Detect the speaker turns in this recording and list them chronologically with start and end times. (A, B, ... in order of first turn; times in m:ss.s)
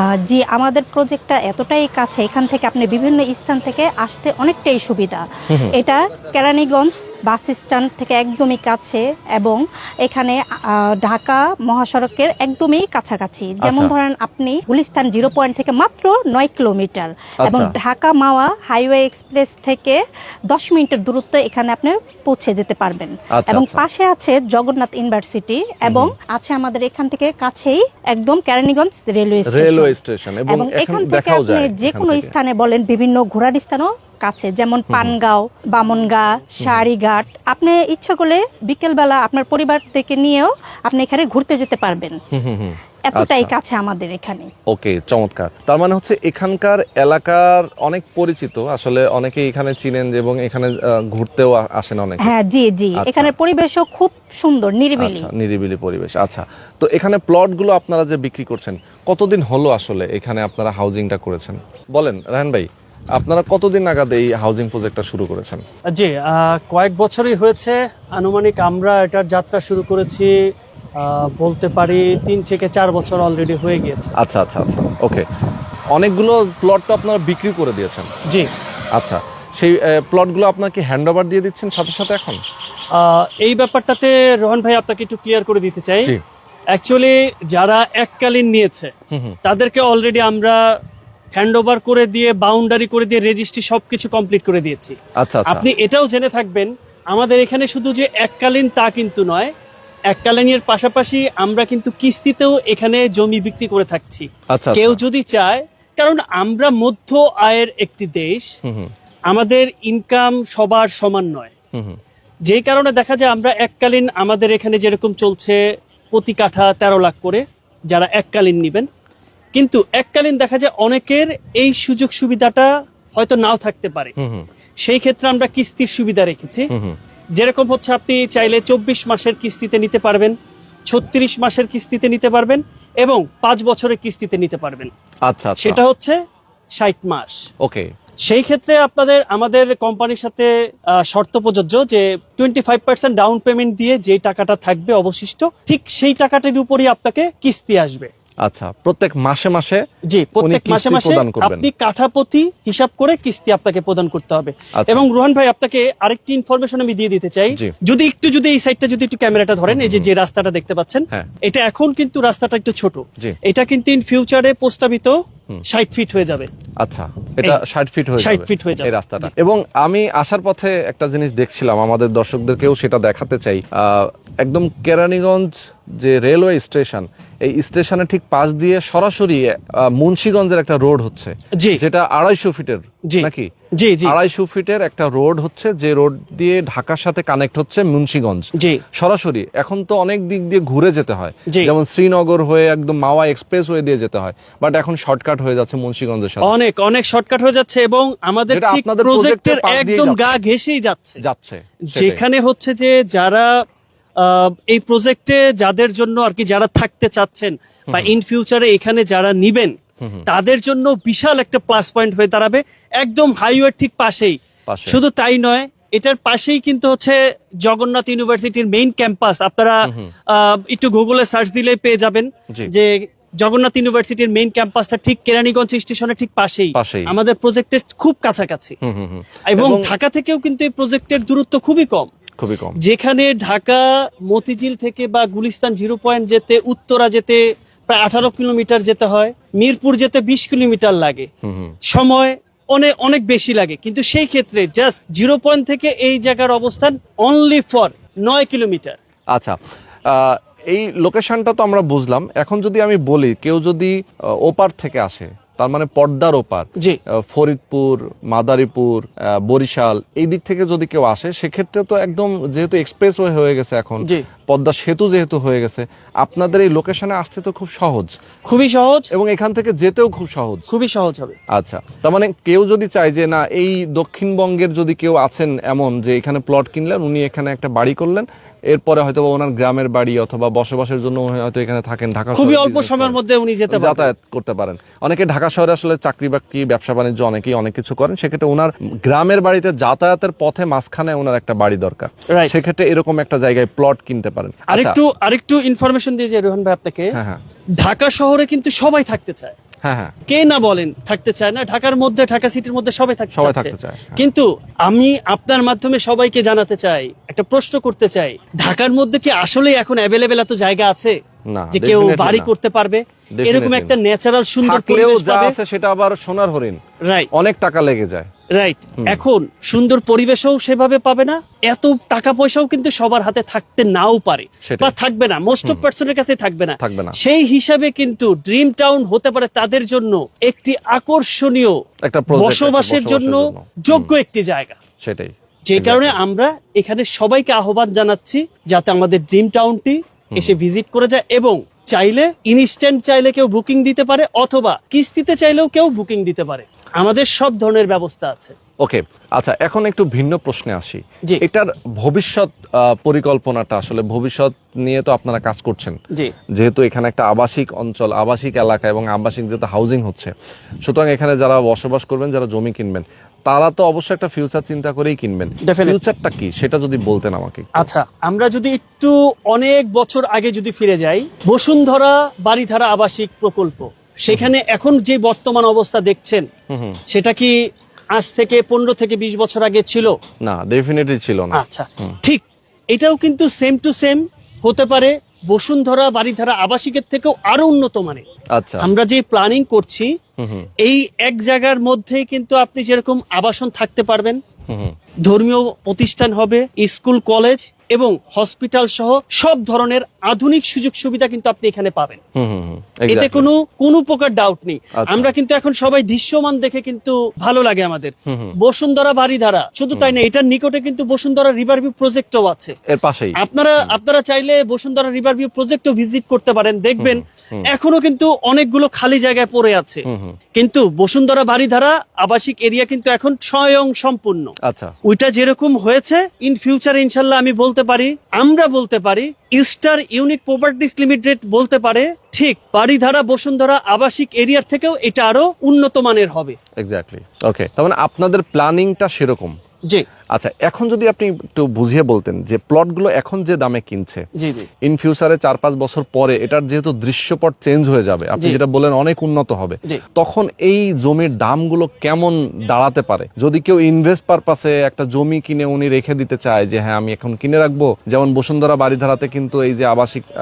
0:00.2-0:30.0 A
0:05.5-0:05.8 B
0:13.6-0:13.9 B
0:17.4-0:17.8 B
0:23.3-0:23.8 B
0:25.8-0:26.1 B
0:29.5-0:32.3 B
0:30.5-0:42.2 A
0:34.9-0:35.2 B
0:36.6-0:36.8 B
0:42.3-0:43.5 B
0:43.0-0:44.5 A
0:44.7-0:52.3 B
0:52.2-0:55.3 A
0:53.0-0:53.3 B
0:55.0-1:05.6 B
1:05.9-1:10.3 C
1:11.0-1:14.1 C
1:14.2-1:15.2 B
1:15.9-1:18.1 B
1:19.0-1:22.4 B
1:23.0-1:26.1 C
1:26.7-1:28.9 C
1:29.1-1:29.4 B
1:29.4-1:30.6 C
1:31.3-1:39.5 C
1:35.2-1:35.7 B
1:40.1-1:48.5 C
1:44.5-1:45.0 B
1:48.7-1:48.9 B
1:49.3-1:51.5 C
1:52.5-1:55.6 C
1:56.1-1:58.9 C
1:59.6-2:04.1 C
2:04.2-2:04.5 B
2:04.8-2:06.7 C
2:06.7-2:07.0 B
2:07.4-2:10.3 C
2:10.9-2:14.9 C
2:15.3-2:15.8 B
2:15.6-2:16.2 C
2:16.8-2:17.4 C
2:18.2-2:28.1 C
2:28.4-2:29.8 B
2:30.1-2:45.2 C
2:30.4-2:31.7 B
2:34.8-2:35.0 B
2:39.7-2:40.1 B
2:45.7-2:46.5 C
2:46.8-3:03.5 B
2:48.2-2:49.3 C
3:03.1-3:04.2 C
3:04.0-3:16.5 B
3:08.6-3:08.8 C
3:16.4-3:21.2 C
3:18.5-3:20.3 B
3:21.2-3:22.2 B
3:21.9-3:23.5 C
3:24.2-3:39.8 C
3:30.0-3:30.3 B
3:34.7-3:35.0 B
3:39.8-3:40.1 B
3:40.3-3:48.8 C
3:46.7-3:47.1 B
3:48.8-3:49.9 B
3:49.5-3:52.1 C
3:52.4-3:52.8 B
3:52.8-4:01.3 C
4:01.4-4:01.8 B
4:01.9-4:09.0 C
4:10.1-4:28.2 B
4:28.4-4:29.1 C
4:29.1-4:30.7 B
4:30.7-4:31.4 C
4:31.5-4:43.2 B
4:42.3-4:44.1 C
4:43.7-4:55.0 B
4:54.7-4:57.1 C
4:57.1-4:57.4 B
4:57.8-4:59.6 C
4:59.8-5:00.2 B
5:00.3-5:11.2 C
5:03.3-5:04.2 B
5:11.5-5:12.5 B
5:11.7-5:15.6 C
5:13.4-5:13.9 B
5:14.6-5:16.8 B
5:17.0-5:17.3 C
5:17.3-5:18.3 B
5:18.6-5:31.8 C
5:24.6-5:24.9 B
5:26.8-5:27.2 B
5:32.1-5:34.1 B
5:32.3-5:34.8 C
5:35.0-5:36.2 B
5:35.7-5:48.6 C
5:48.8-5:56.0 B
5:56.6-6:00.3 B
6:00.8-6:07.9 B
6:05.6-6:06.0 C
6:07.8-6:16.5 C
6:16.7-6:17.0 B
6:17.1-6:17.5 C
6:18.2-6:20.1 C
6:20.4-6:22.2 B
6:21.5-6:28.2 C
6:28.6-6:28.9 B
6:28.8-6:30.1 C
6:30.4-6:30.7 B
6:30.8-6:34.4 C
6:34.7-6:34.9 B
6:35.2-6:42.2 C
6:42.4-6:43.5 B
6:43.1-6:52.8 C
6:45.0-6:45.3 B
6:48.3-6:48.6 B
6:52.9-6:54.0 B
6:53.4-7:00.0 C
6:57.0-6:57.7 B
7:00.1-7:00.4 B
7:00.6-7:04.5 C
7:04.6-7:05.0 B
7:05.0-7:16.6 C
7:16.8-7:19.6 B
7:20.3-7:24.2 B
7:24.4-7:24.7 C
7:24.8-7:40.3 B